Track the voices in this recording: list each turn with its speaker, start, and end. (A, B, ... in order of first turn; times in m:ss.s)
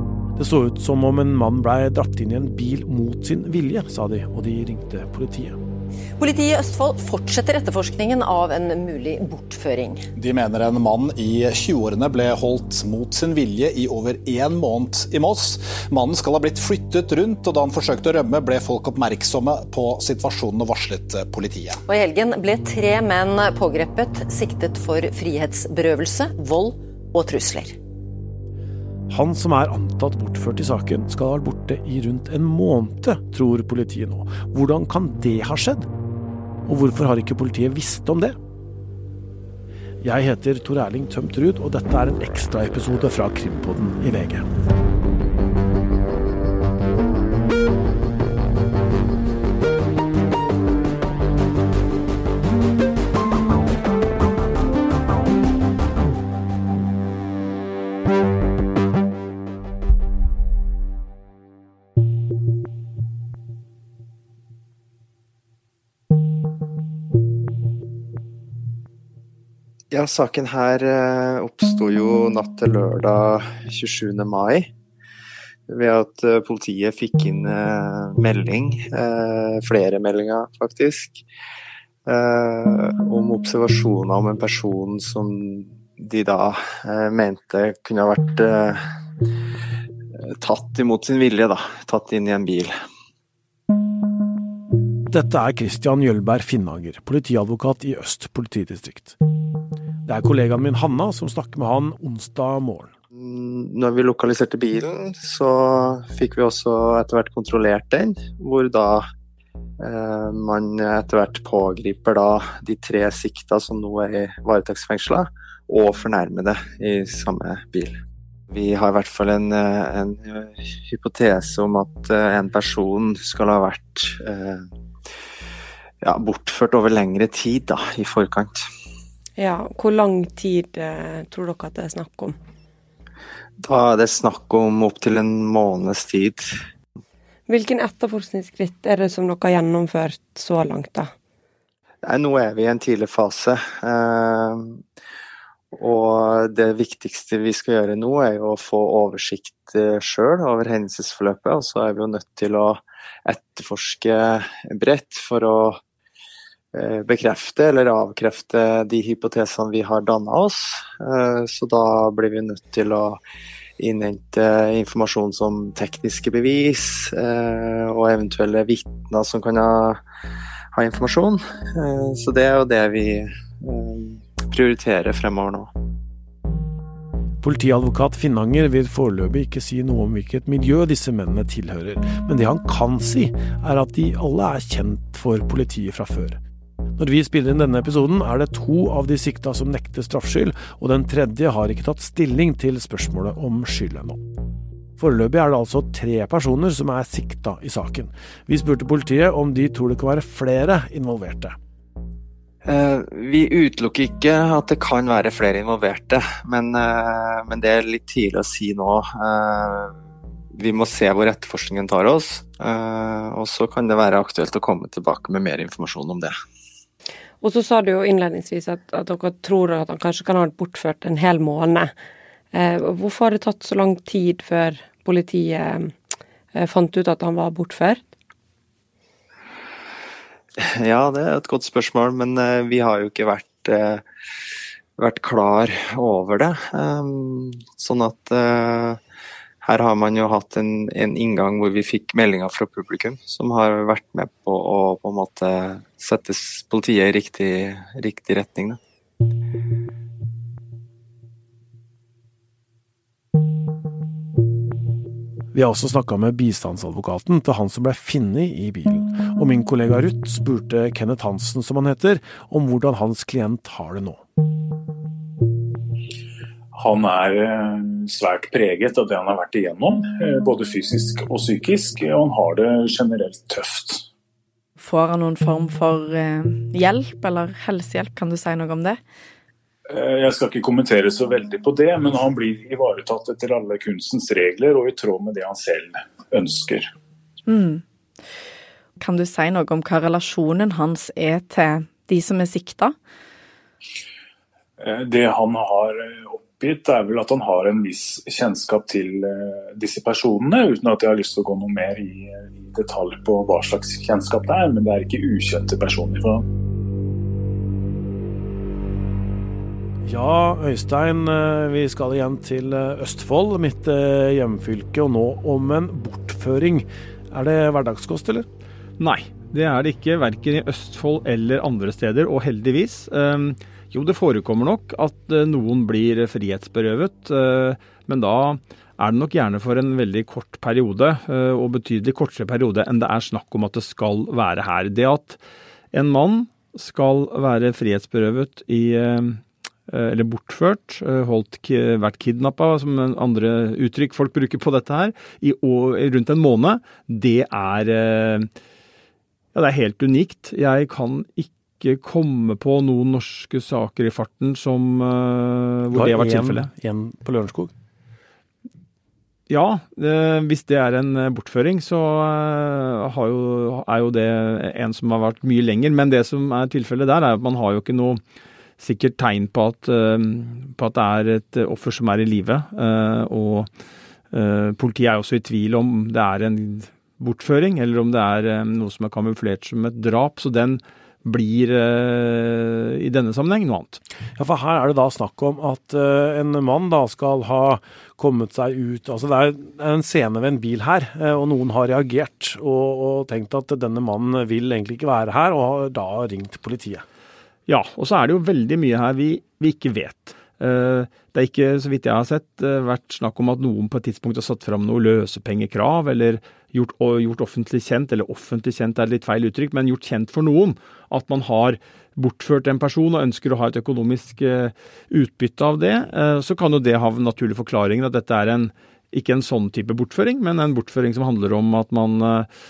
0:00.4-0:05.6 A
0:06.2-0:10.0 B
0:10.2-0:21.8 C
0:21.9-0:27.8 B
0:29.1-0:35.9 A
0:36.7-0:38.4 A
0:40.0-0:44.5 A
1:09.9-1:14.7 D
1:15.7-1:21.2 D
1:22.1-1:28.8 D
1:30.4-1:32.7 D
1:35.1-1:39.2 A
1:40.0-1:42.9 A
1:43.1-1:49.0 D
1:49.8-1:58.0 D
1:58.5-2:04.6 D
2:06.0-2:08.6 D
2:09.4-2:12.4 E
2:13.6-2:16.4 D
2:17.5-2:21.1 E
2:22.1-2:24.8 D
2:25.7-2:35.8 D
2:36.7-2:43.2 D
2:43.8-2:50.0 D
2:50.7-2:55.7 D
2:57.4-3:06.4 A
3:07.0-3:14.2 A
3:15.0-3:21.6 A
3:22.6-3:29.9 D
3:30.6-3:36.3 D
3:37.4-3:41.9 E
3:42.5-3:45.9 E
3:46.6-3:48.0 E
3:50.6-3:54.0 D
3:55.0-3:59.0 D
3:59.6-4:08.8 D
4:15.5-4:24.2 A
4:26.8-4:34.0 F
4:34.8-4:39.0 G
4:39.9-4:46.8 F
4:47.5-4:47.8 G
4:49.0-4:52.9 G
4:54.8-5:06.4 F
5:10.0-5:18.5 A
5:19.0-5:35.4 H
5:35.9-5:48.5 H
5:49.5-5:56.7 H
5:55.9-5:57.7 A
5:59.5-6:08.2 H
6:08.8-6:13.7 H
6:14.3-6:24.0 H
6:24.4-6:37.0 A
6:37.7-7:02.5 H